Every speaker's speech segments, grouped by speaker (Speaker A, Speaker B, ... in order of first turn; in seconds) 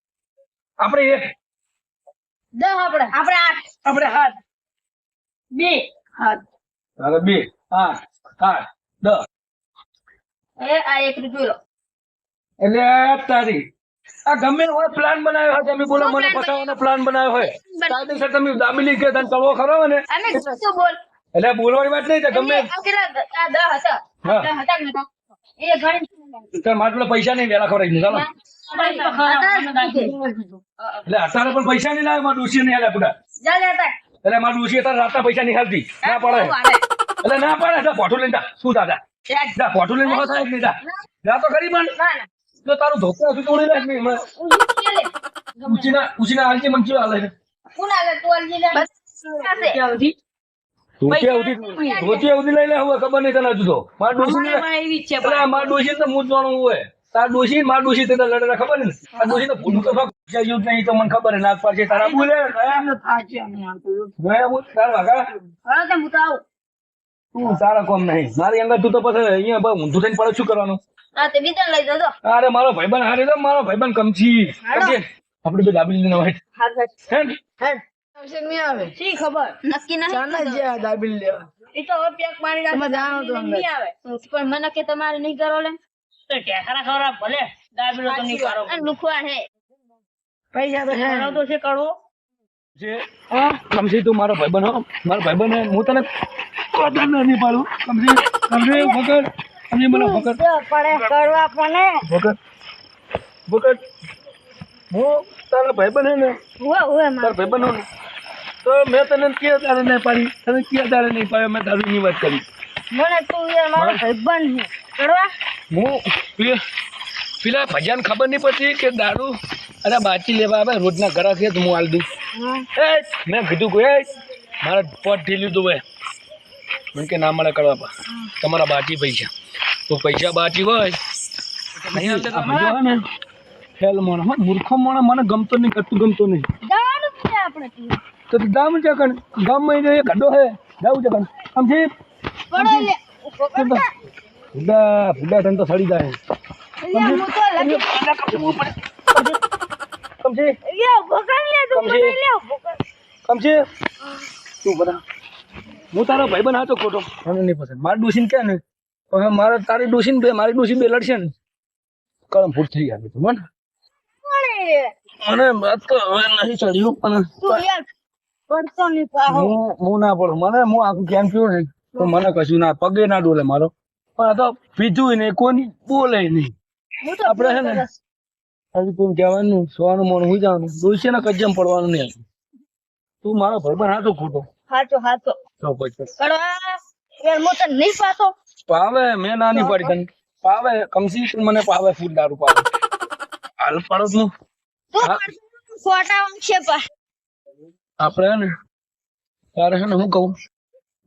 Speaker A: 0.8-1.3, 3.9-4.3, 7.0-9.2, 12.6-13.6, 14.3-20.1, 21.4-22.7, 24.2-24.5, 26.6-28.3, 31.1-33.1, 34.2-36.6, 37.2-39.0, 39.6-42.0, 42.6-44.2, 45.6-47.3, 51.0-54.7, 55.2-62.8, 64.2-65.3, 67.4-70.8, 72.2-76.4, 93.7-96.1, 96.7-100.4, 102.0-102.4, 103.5-103.8, 104.9-106.4, 107.2-107.9, 108.6-112.4, 113.8-114.0, 115.7-116.6, 117.4-122.1, 122.8-124.1, 124.6-125.8, 126.9-127.9, 128.4-129.3, 129.9-131.0, 131.9-133.0, 133.8-136.5, 138.3-141.9, 142.5-142.9, 143.5-143.9, 144.5-146.2, 146.9-148.7, 150.2-150.6, 151.7-152.2, 153.3-153.6, 154.6-155.0, 155.9-158.6, 159.1-161.3, 162.3-163.4, 165.2-167.7, 169.3-176.5, 177.2-177.9, 178.8-182.2, 183.2-184.5, 185.6-186.1, 188.7-192.7, 193.6-194.3, 195.0-195.3, 198.0-198.5, 199.6-200.3
Speaker B: 2.6-3.7, 5.5-5.9, 10.6-11.6, 15.9-16.8, 17.4-18.3, 20.1-21.0, 22.3-25.1, 25.6-26.5, 28.1-31.0, 33.4-33.9, 36.0-36.8, 39.3-41.0, 42.0-42.3, 43.7-45.9, 47.8-50.1, 51.1-52.2, 54.2-55.7, 59.2-59.5, 65.7-66.4, 71.2-72.1, 74.7-75.0, 76.6-76.9, 79.0-80.7, 81.7-85.8, 88.1-89.5, 93.3-93.6, 98.7-99.0, 99.9-102.0, 106.6-107.7, 112.9-115.3, 122.4-122.7, 136.7-138.0, 142.5-143.9, 146.8-148.0, 150.7-152.8, 164.2-164.9, 167.4-167.9, 168.5-169.5, 177.1-177.9, 184.7-185.4, 186.2-188.3, 189.5-189.9, 194.9-196.8
Speaker C: 28.7-30.1, 49.4-49.8, 86.3-88.9, 90.9-91.9
Speaker D: 62.5-64.1, 78.2-78.9, 80.1-81.5, 82.7-83.7, 90.5-91.4, 131.9-132.8